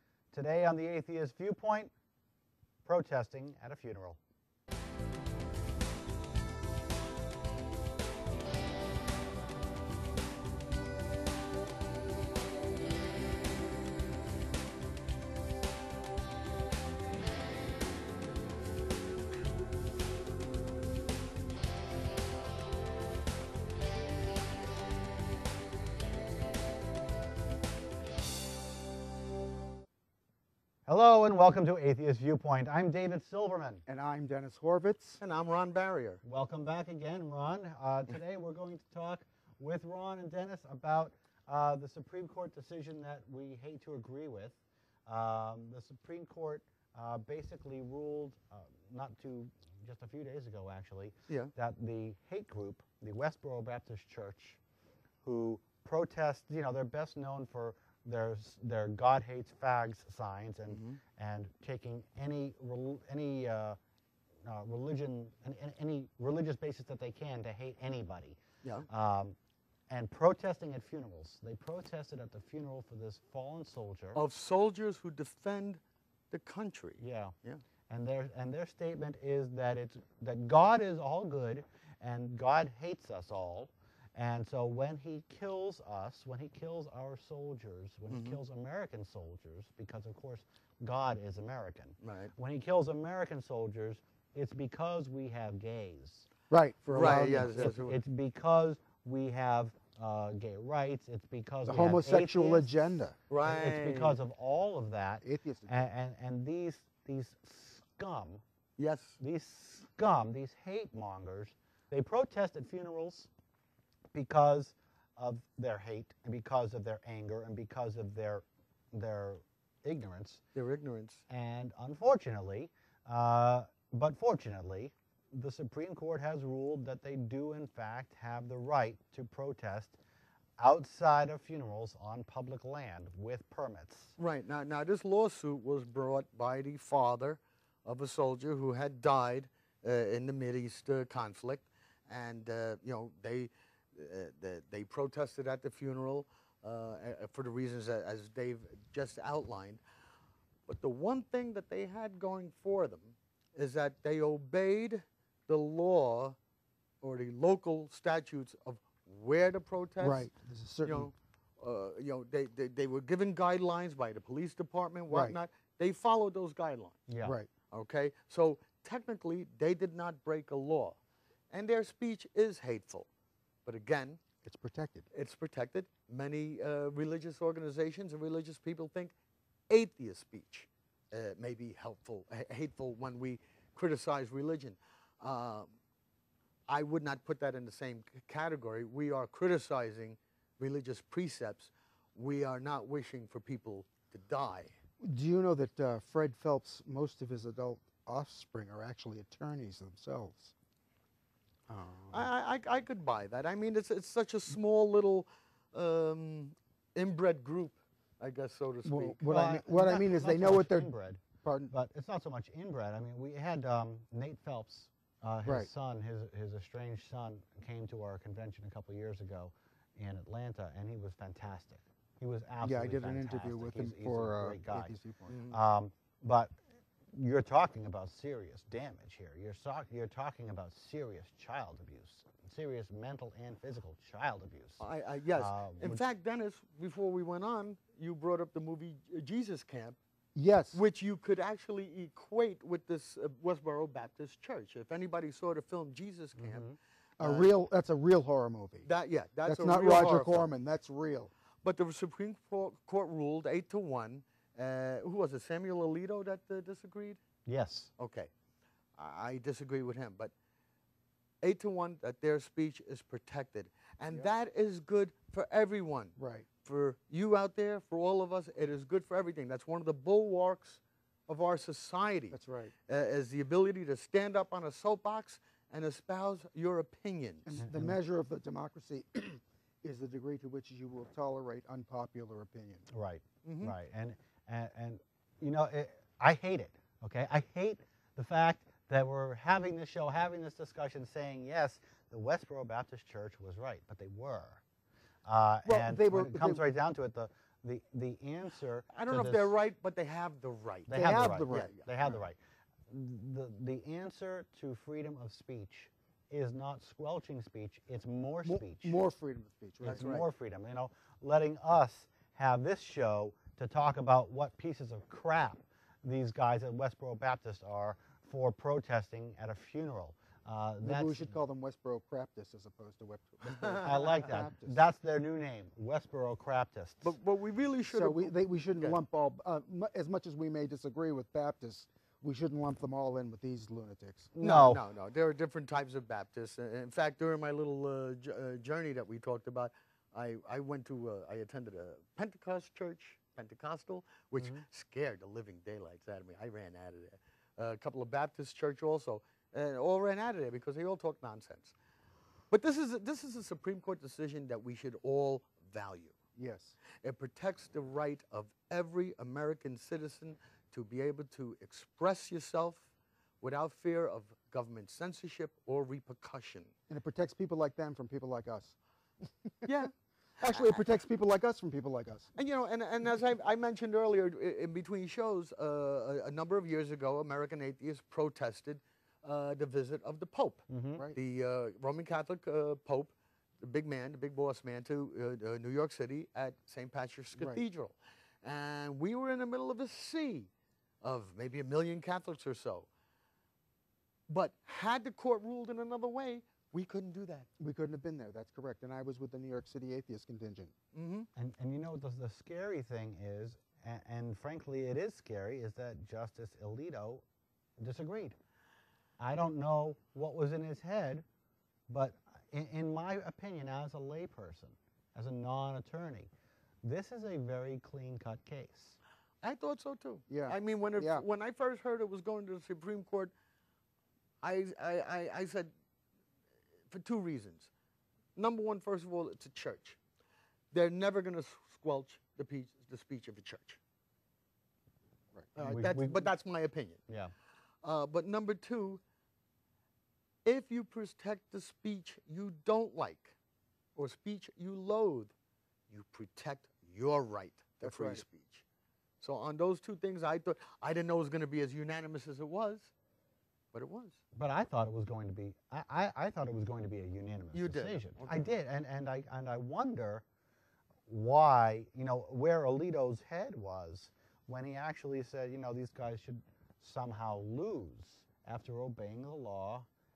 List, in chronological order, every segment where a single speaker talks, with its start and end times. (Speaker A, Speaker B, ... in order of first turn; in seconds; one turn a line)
Speaker A: 0.3-1.9
Speaker A: 2.9-4.2
Speaker A: 30.9-33.9
Speaker B: 33.9-35.2
Speaker C: 35.2-36.2
Speaker A: 36.2-54.6
Speaker A: 55.2-63.8
Speaker C: 60.7-61.0
Speaker A: 64.5-69.4
Speaker C: 68.6-68.9
Speaker A: 69.9-74.2
Speaker C: 74.2-77.6
Speaker A: 77.0-77.3
Speaker A: 77.9-96.3
Speaker C: 88.1-88.4
Speaker C: 92.0-92.3
Speaker B: 96.5-97.7
Speaker C: 96.9-98.0
Speaker A: 97.0-108.4
Speaker B: 101.7-103.2
Speaker C: 103.3-104.2
Speaker B: 105.2-105.8
Speaker C: 108.8-109.2
Speaker A: 109.2-113.3
Speaker A: 114.1-120.4
Speaker C: 120.5-121.2
Speaker A: 121.3-130.0
Speaker A: 130.6-134.2
Speaker C: 134.2-149.8
Speaker C: 150.7-156.4
Speaker C: 157.0-160.3
Speaker B: 160.0-161.1
Speaker C: 160.8-167.1
Speaker B: 165.1-165.4
Speaker A: 167.1-167.4
Speaker C: 167.7-171.0
Speaker C: 171.5-173.1
Speaker C: 173.7-174.2
Speaker B: 174.4-175.1
Speaker C: 175.1-179.2
Speaker C: 179.7-185.7
Speaker C: 186.7-194.8
Speaker B: 195.0-200.5
Speaker B: 201.7-202.3
Speaker C: 202.1-209.2
Speaker B: 208.8-211.7
Speaker A: 209.3-225.0
Speaker B: 222.6-225.3
Speaker C: 225.3-225.6
Speaker A: 225.5-226.5
Speaker A: 227.1-234.8
Speaker C: 234.8-240.0
Speaker A: 235.4-236.0
Speaker B: 240.3-240.8
Speaker C: 240.7-246.7
Speaker A: 246.4-246.8
Speaker C: 247.2-247.5
Speaker B: 247.2-248.9
Speaker C: 248.8-250.5
Speaker B: 249.4-251.3
Speaker C: 251.6-257.2
Speaker A: 257.5-257.9
Speaker C: 258.0-258.3
Speaker C: 259.0-260.3
Speaker C: 261.4-277.6
Speaker B: 266.2-266.5
Speaker B: 272.3-272.7
Speaker B: 277.5-282.9
Speaker A: 277.6-278.0
Speaker A: 282.9-294.6
Speaker C: 283.4-283.8
Speaker A: 295.3-299.5
Speaker B: 295.6-296.6
Speaker C: 298.9-301.8
Speaker A: 300.9-302.4
Speaker B: 300.9-302.2
Speaker A: 302.9-309.0
Speaker B: 308.4-310.2
Speaker C: 309.8-310.3
Speaker A: 309.9-321.3
Speaker B: 320.8-324.8
Speaker A: 323.8-327.1
Speaker C: 327.0-329.0
Speaker B: 327.9-334.3
Speaker A: 334.4-334.8
Speaker C: 334.4-351.8
Speaker C: 352.5-356.2
Speaker B: 356.4-356.8
Speaker C: 356.9-362.9
Speaker C: 363.4-366.7
Speaker B: 366.9-369.8
Speaker C: 369.7-371.0
Speaker B: 370.4-372.3
Speaker C: 372.4-390.5
Speaker A: 380.7-381.1
Speaker C: 391.0-392.9
Speaker C: 394.3-397.5
Speaker B: 397.6-400.7
Speaker C: 400.9-401.3
Speaker A: 401.4-407.2
Speaker A: 407.8-408.4
Speaker A: 409.2-411.2
Speaker A: 411.9-416.3
Speaker A: 416.8-419.0
Speaker C: 419.4-423.3
Speaker B: 420.3-421.2
Speaker C: 424.4-425.7
Speaker C: 426.9-427.7
Speaker C: 428.4-430.0
Speaker C: 430.7-433.8
Speaker A: 435.6-436.3
Speaker C: 435.6-437.1
Speaker A: 437.1-437.3
Speaker C: 437.8-439.0
Speaker C: 440.4-443.4
Speaker C: 443.9-445.3
Speaker C: 445.9-448.6
Speaker B: 447.8-448.2
Speaker C: 449.2-452.9
Speaker C: 453.7-454.2
Speaker A: 454.3-460.2
Speaker C: 457.5-458.6
Speaker A: 461.1-469.9